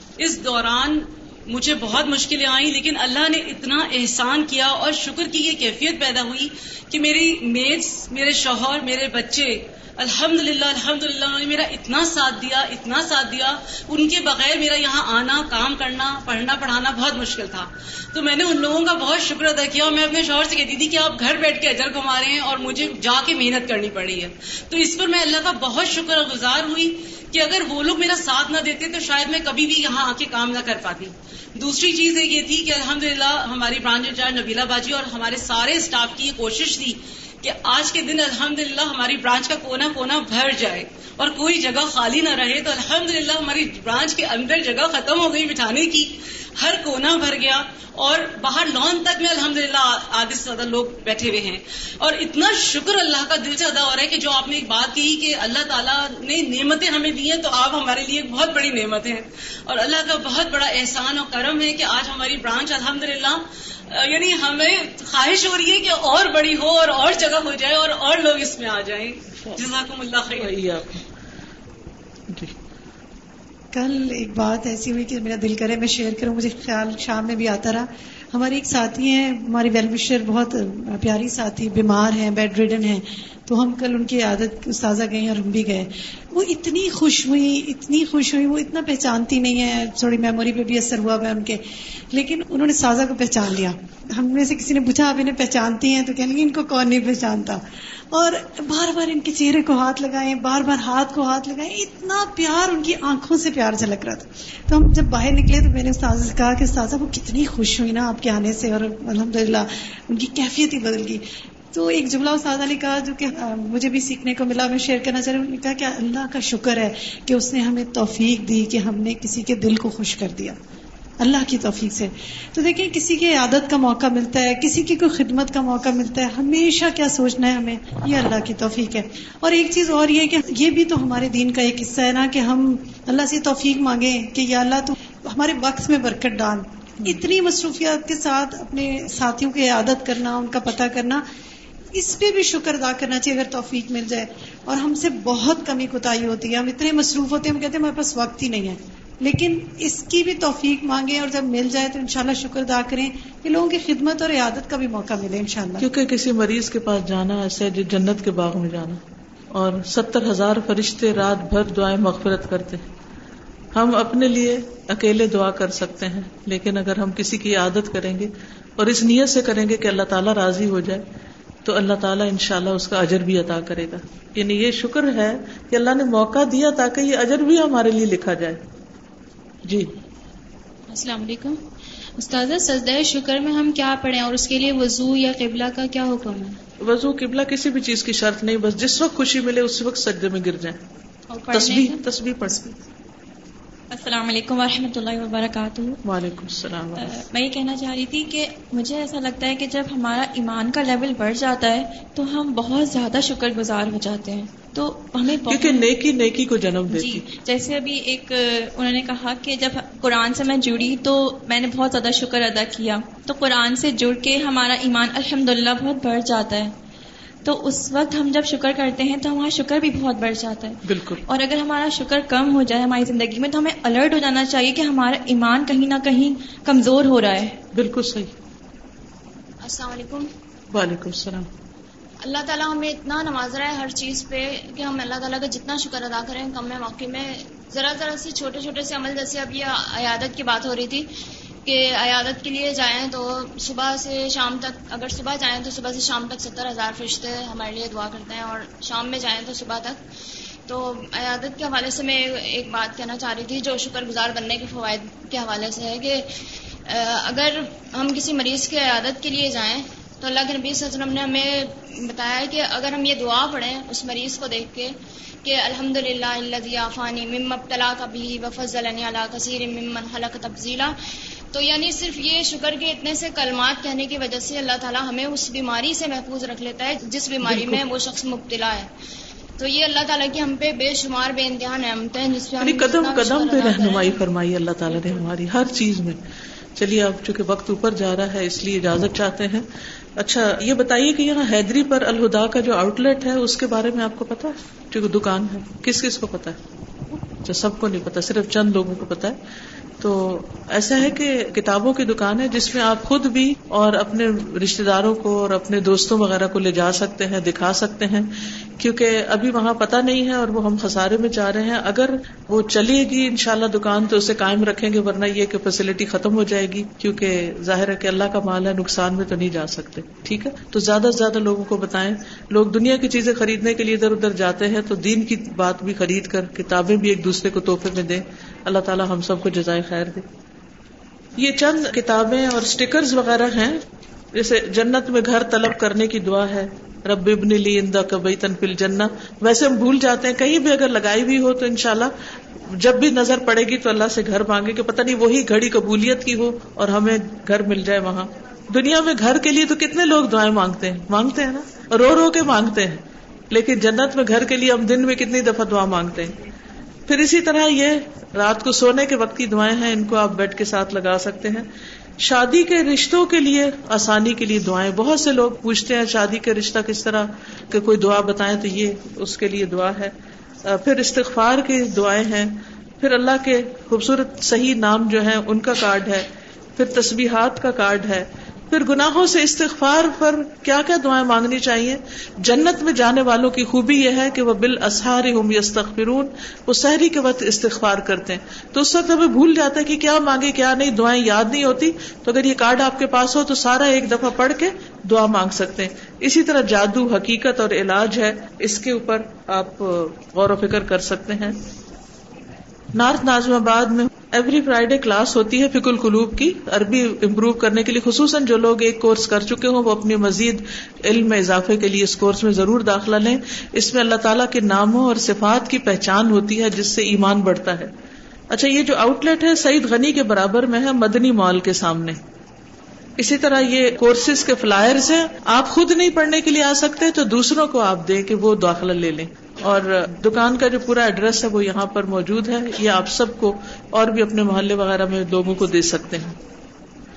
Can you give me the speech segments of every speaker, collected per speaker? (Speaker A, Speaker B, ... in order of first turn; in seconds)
Speaker A: 0.2-70.6
Speaker B: 70.3-71.0, 155.8-159.0, 159.5-162.9, 163.7-171.0, 171.6-178.6, 179.7-179.9, 186.8-190.8, 191.5-192.7, 196.0-197.1, 205.5-207.2, 220.8-221.2, 227.7-228.3, 230.7-231.5, 277.4-277.8, 282.6-286.2, 286.8-289.6, 290.2-296.6, 297.4-299.4, 300.0-330.2, 331.4-333.8, 334.3-342.1, 342.7-356.4, 357.1-361.7, 362.2-370.1, 370.6-401.6, 402.9-417.9, 418.5-422.2, 423.2-436.3
Speaker C: 73.7-91.6, 92.1-97.6, 98.1-120.6, 121.2-141.2, 141.9-155.9
Speaker D: 180.9-181.6, 182.2-186.6
Speaker E: 191.4-191.8, 193.9-196.0, 197.0-205.8, 206.9-216.7, 217.4-227.6
Speaker F: 229.6-230.3, 232.2-241.1, 241.6-250.0, 250.7-256.3, 256.9-270.9, 271.5-278.9, 279.6-284.1